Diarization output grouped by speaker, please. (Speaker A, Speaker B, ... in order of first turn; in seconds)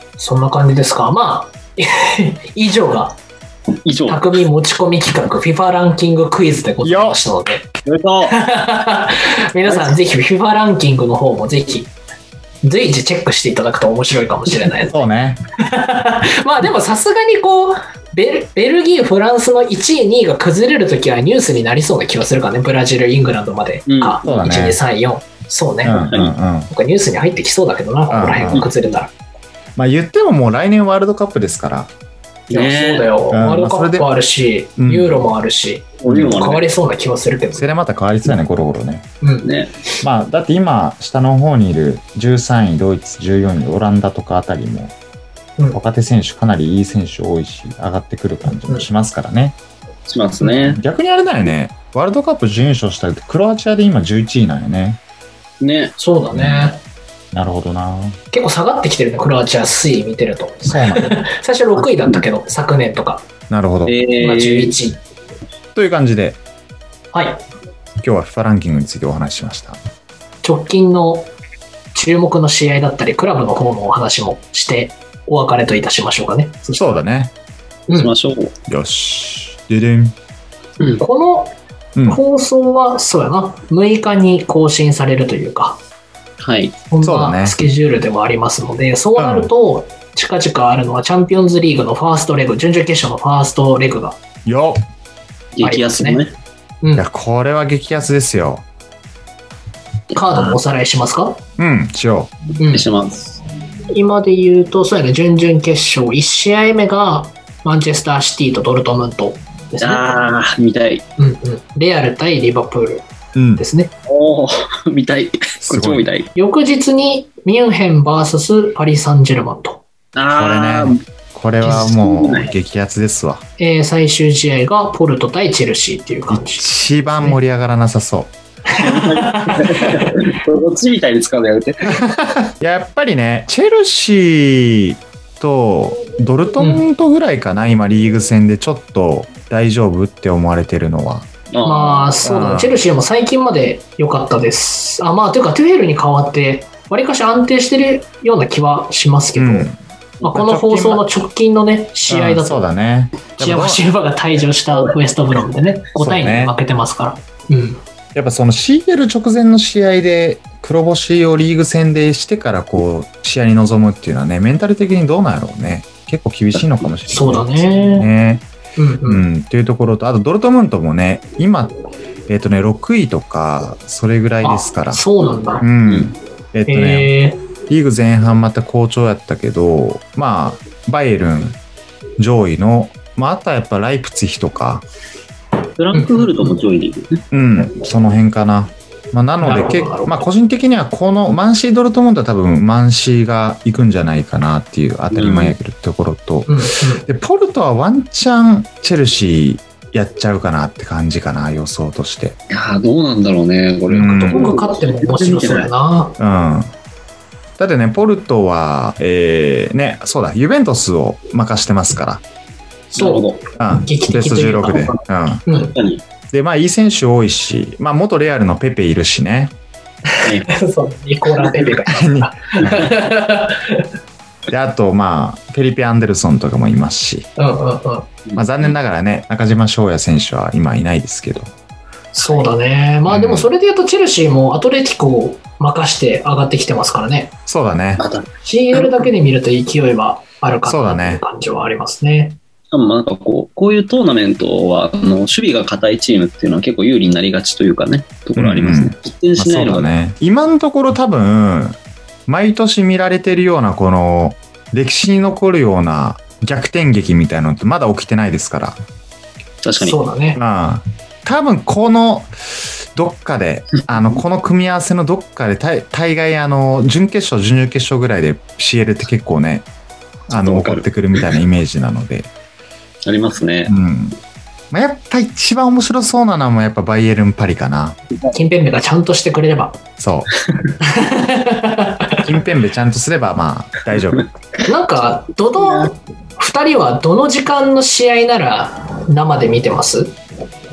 Speaker A: 0.2-3.2, 4.1-7.7, 8.2-11.9, 12.6-15.1, 15.6-26.0, 26.7-29.1, 32.5-37.7, 39.2-39.5, 56.0-56.8, 58.3-63.3, 64.2-65.0, 67.1-67.4, 70.4-71.3, 71.9-77.0, 81.0-81.5, 82.1-85.8, 86.9-94.2, 95.6-96.2, 100.1-101.4, 102.6-102.8, 103.9-110.2, 111.2-113.0, 113.6-113.9, 116.3-119.8, 123.6-127.4, 128.7-130.2, 136.6-136.8, 141.6-149.7, 150.2-152.6, 153.3-157.8, 167.1-168.1, 168.8-169.2, 174.4-175.6, 176.7-177.4, 185.9-186.5, 189.4-190.2, 196.5-197.1, 204.3-206.2, 212.9-214.9, 215.5-215.7, 220.1-223.9, 227.4-228.1, 232.1-237.3, 238.4-242.4, 259.8-260.4, 278.3-279.8, 280.8-282.2, 284.6-290.1
Speaker B: 3.8-4.3, 7.8-8.3, 9.7-10.0, 23.9-24.3, 25.9-26.3, 32.5-33.1, 36.0-36.6, 39.4-39.7, 50.1-50.8, 55.6-56.0, 63.9-64.7, 77.9-78.5, 86.4-86.8, 95.5-96.3, 100.2-100.6, 102.7-103.4, 109.8-111.0, 114.1-116.3, 120.1-121.0, 121.6-122.5, 128.7-132.0, 141.5-142.1, 185.8-187.2, 195.1-195.6, 202.5-205.7, 212.9-213.5, 214.7-216.0, 221.4-221.7, 238.0-239.1, 242.7-249.9, 259.6-260.0, 270.3-271.4, 273.0-273.7, 285.6-285.9
Speaker C: 6.8-7.2, 14.9-15.4, 24.2-24.8, 25.8-26.7, 28.1-28.6, 29.8-31.9, 33.3-34.1, 34.8-35.1, 36.1-36.4, 37.5-39.1, 40.0-45.0, 45.7-49.6, 50.5-55.0, 56.3-56.7, 57.3-58.2, 60.7-61.2, 63.5-64.0, 65.7-66.4, 68.0-69.8, 76.8-77.3, 78.7-80.1, 87.0-87.5, 89.2-89.5, 94.5-94.8, 96.9-98.7, 101.6-102.3, 113.3-113.6, 115.6-116.1, 120.3-123.4, 126.3-128.3, 131.9-141.3, 142.2-142.8, 149.3-151.0, 152.1-153.8, 156.0-156.6, 158.1-168.4, 169.0-171.7, 172.3-175.1, 175.6-181.6, 182.2-184.8, 187.3-202.4, 203.9-204.6, 206.2-206.7, 207.6-212.2, 213.6-215.4, 216.3-219.5, 221.8-222.9, 224.5-227.3, 228.3-231.5, 233.1-233.5, 237.5-238.0, 240.6-241.2, 248.3-258.8, 260.4-269.7, 270.3-272.3, 273.7-274.2, 274.7-278.0, 280.0-280.3, 282.2-284.3